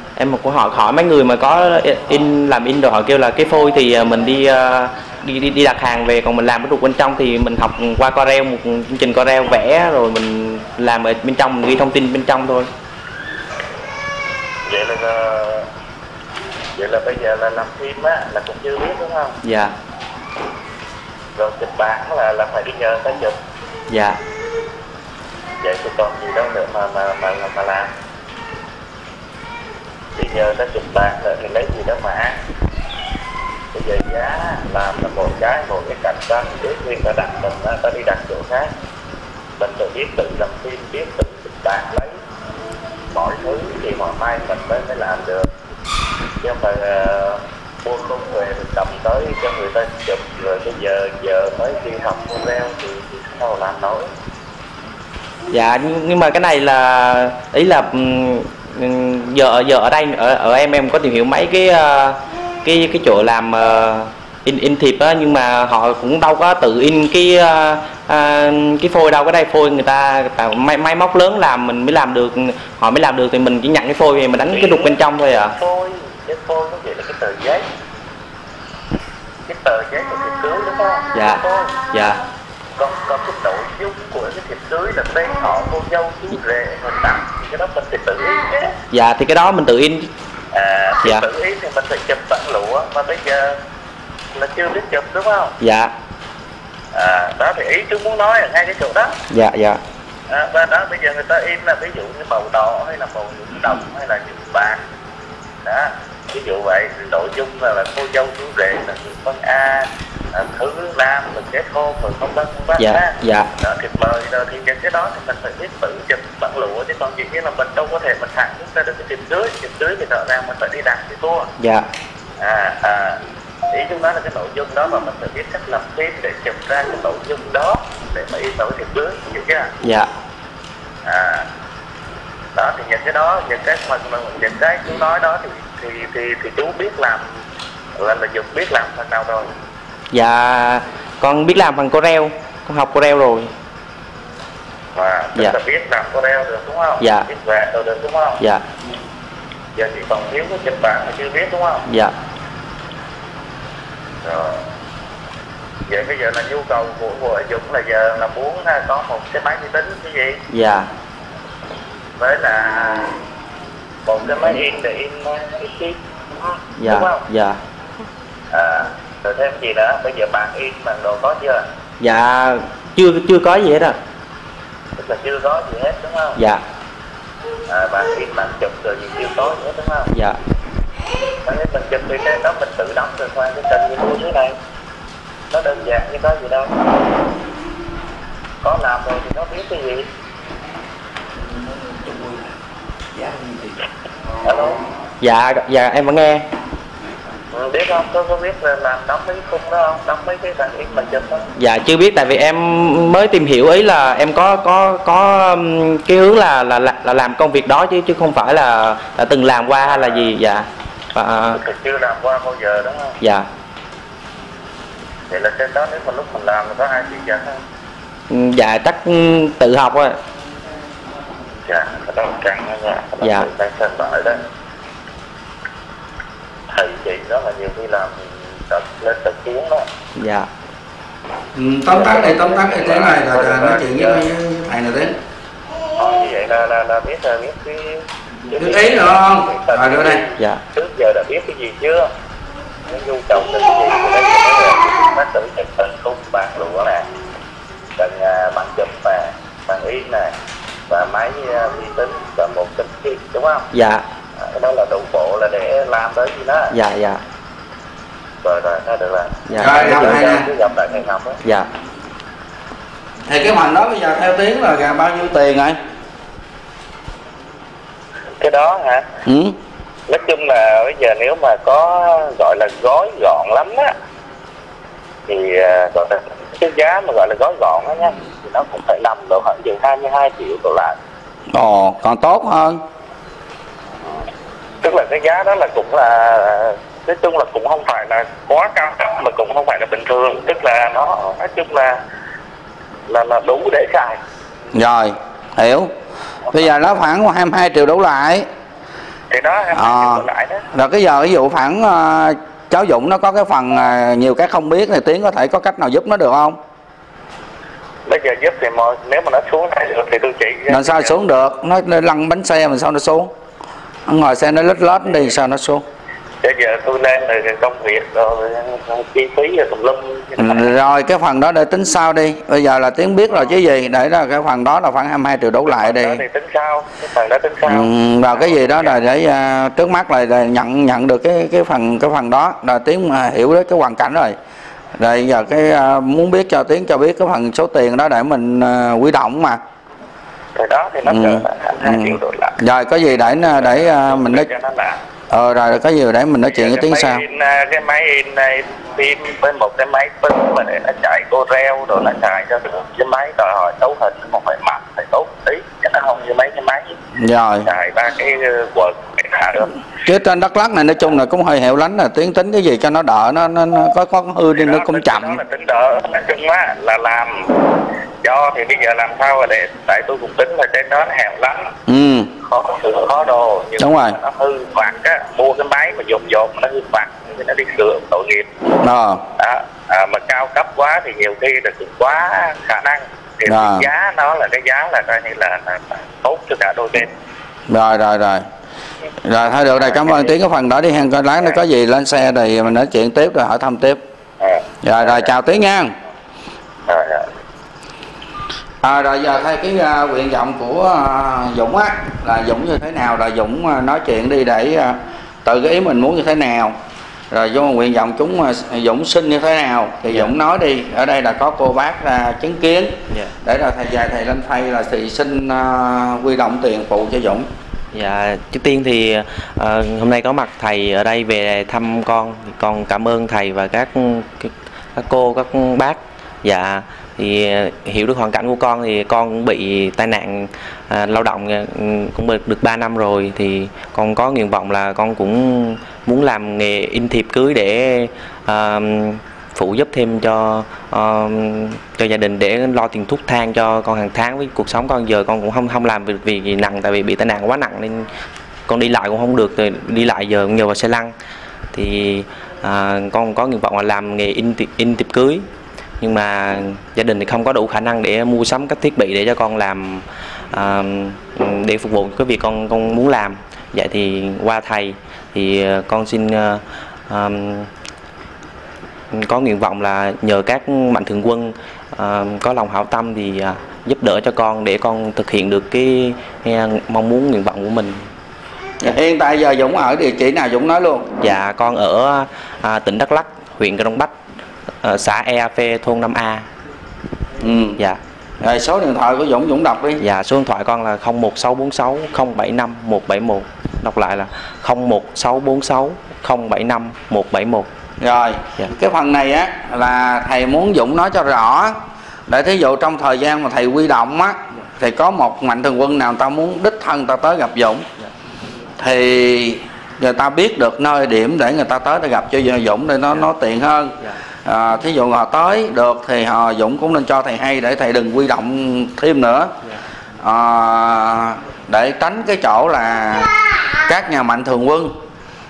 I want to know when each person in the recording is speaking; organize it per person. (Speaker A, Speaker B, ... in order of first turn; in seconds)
Speaker A: 0.2-12.7, 19.4-19.7, 23.9-24.2, 55.5-75.5, 81.1-82.2, 88.9-90.1, 95.6-95.9, 99.3-99.8, 112.8-113.5, 121.6-121.8, 129.8-130.1, 140.1-143.5, 147.0-147.3, 151.9-152.1, 160.5-160.9, 166.8-167.6, 172.0-174.0, 176.3-176.6, 180.1-180.4, 195.2-196.4, 201.6-211.6, 213.2-213.5, 218.3-220.2, 223.2-223.5, 230.2-230.5, 253.7-254.0, 256.7-257.2, 259.5-260.2, 417.9-448.1, 448.7-451.1, 451.7-455.4, 456.0-467.7, 469.1-478.1, 481.2-484.1, 484.8-486.4, 490.0-497.7
Speaker B: 14.7-15.7, 16.8-19.4, 21.4-23.3, 25.6-27.9, 30.1-32.4, 33.7-38.7, 39.6-42.1, 43.1-45.5, 46.4-54.1, 74.5-74.9, 75.5-77.7, 79.5-81.7, 82.8-88.8, 90.5-93.6, 94.3-95.5, 96.9-99.2, 100.3-104.8, 105.6-121.5, 122.4-129.7, 131.0-131.4, 132.6-137.2, 138.0-139.5, 144.9-148.4, 149.8-151.8, 154.2-154.6, 155.9-160.4, 162.2-163.1, 164.1-167.2, 168.5-171.6, 175.0-176.4, 177.7-180.1, 181.4-184.6, 185.5-186.7, 188.6-190.1, 194.4-194.8, 197.5-201.4, 209.9-210.3, 211.5-213.1, 215.3-217.6, 221.6-224.4, 226.7-229.8, 231.9-234.3, 236.0-242.1, 242.9-247.0, 248.0-250.3, 250.9-253.7, 254.4-256.7, 258.4-261.4, 268.4-269.1, 270.1-273.9, 275.3-280.9, 284.8-292.0, 293.1-294.2, 299.3-300.6, 308.1-311.1, 316.4-320.7, 325.6-328.9, 340.6-342.6, 343.6-345.0, 346.5-356.9, 357.6-359.8, 364.5-367.5, 368.2-371.7, 372.4-378.5, 379.4-387.1, 389.7-390.3, 394.4-395.3, 396.9-397.3
Speaker C: 231.5-235.2, 238.6-240.2, 259.6-260.5, 263.3-265.8, 269.2-269.6, 281.5-282.8, 294.7-295.9, 296.5-298.4, 299.7-306.6, 310.7-313.3, 314.1-315.8, 320.4-326.2, 327.6-334.4, 335.0-339.6, 341.1-344.5, 345.3-347.2, 357.1-357.7, 360.0-365.4, 371.9-372.3, 373.8-374.2, 378.8-379.2, 383.5-383.9, 387.7-388.4, 389.2-394.0, 394.8-395.9, 398.8-406.7, 407.3-417.5, 478.8-481.1, 487.4-487.8, 488.4-490.0, 498.0-507.9, 508.8-519.5, 520.2-523.3, 523.9-524.9